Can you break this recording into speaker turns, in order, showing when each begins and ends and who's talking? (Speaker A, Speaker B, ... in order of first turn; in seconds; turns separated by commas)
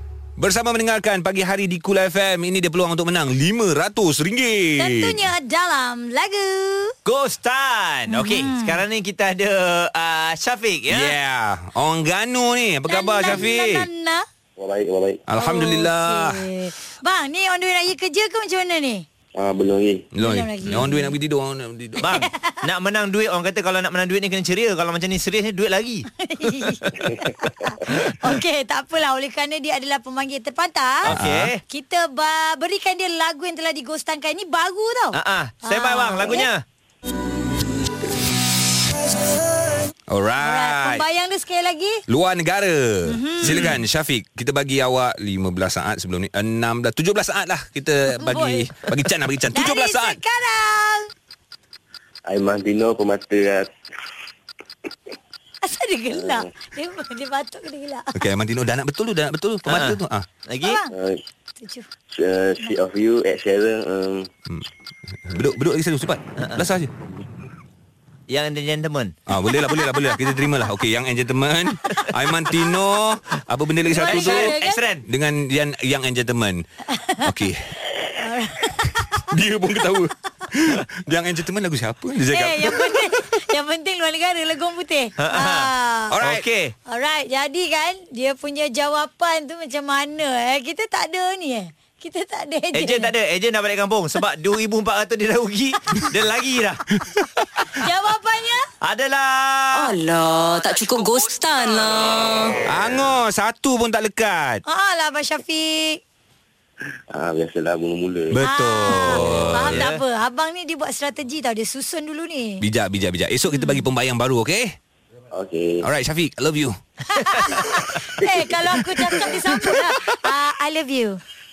Speaker A: 0.4-5.2, Speaker B: 4.8-6.9, Speaker C: 7.0-11.2, Speaker B: 8.1-8.8, Speaker A: 10.9-13.9, Speaker B: 12.9-14.2, Speaker D: 14.6-15.2, Speaker A: 15.3-16.5, Speaker B: 15.4-19.0, Speaker D: 19.4-20.1, Speaker A: 20.1-22.2, Speaker B: 20.2-21.1, Speaker C: 22.0-26.1, Speaker B: 22.0-22.6, Speaker B: 26.2-31.1, Speaker C: 27.9-28.1, Speaker C: 31.0-31.6, Speaker A: 31.1-31.5, Speaker B: 31.7-36.5, Speaker C: 35.1-36.6, Speaker A: 40.1-41.0, Speaker B: 40.4-42.0, Speaker A: 42.1-50.2, Speaker B: 43.1-43.7, Speaker B: 48.2-48.9, Speaker B: 49.5-51.1, Speaker D: 52.3-53.7, Speaker B: 55.6-58.1, Speaker D: 56.1-56.5, Speaker A: 58.1-60.2, Speaker C: 59.6-60.8, Speaker B: 60.6-60.9, Speaker D: 60.9-61.2, Speaker B: 61.6-61.9, Speaker D: 62.1-64.3, Speaker A: 65.2-66.9, Speaker C: 66.4-66.6, Speaker C: 68.3-69.1, Speaker A: 69.3-74.5, Speaker B: 69.7-70.2, Speaker B: 73.9-74.8, Speaker C: 74.1-75.0, Speaker A: 75.0-76.6, Speaker B: 76.9-77.3, Speaker A: 77.2-77.6, Speaker B: 78.2-79.3, Speaker A: 79.3-83.1, Speaker B: 82.3-86.1, Speaker C: 85.2-86.7, Speaker A: 86.1-86.5, Speaker B: 86.9-93.1, Speaker C: 92.7-96.8, Speaker B: 97.8-98.6, Speaker C: 98.8-100.0, Speaker E: 99.7-102.5, Speaker A: 102.6-104.6, Speaker B: 104.6-106.0, Speaker D: 107.1-108.3, Speaker A: 108.3-109.9, Speaker B: 108.4-112.6, Speaker C: 108.9-110.0, Speaker A: 112.6-114.7, Speaker B: 113.5-113.8, Speaker D: 115.3-115.8, Speaker A: 115.8-116.8, Speaker B: 117.1-121.2, Speaker A: 118.8-119.9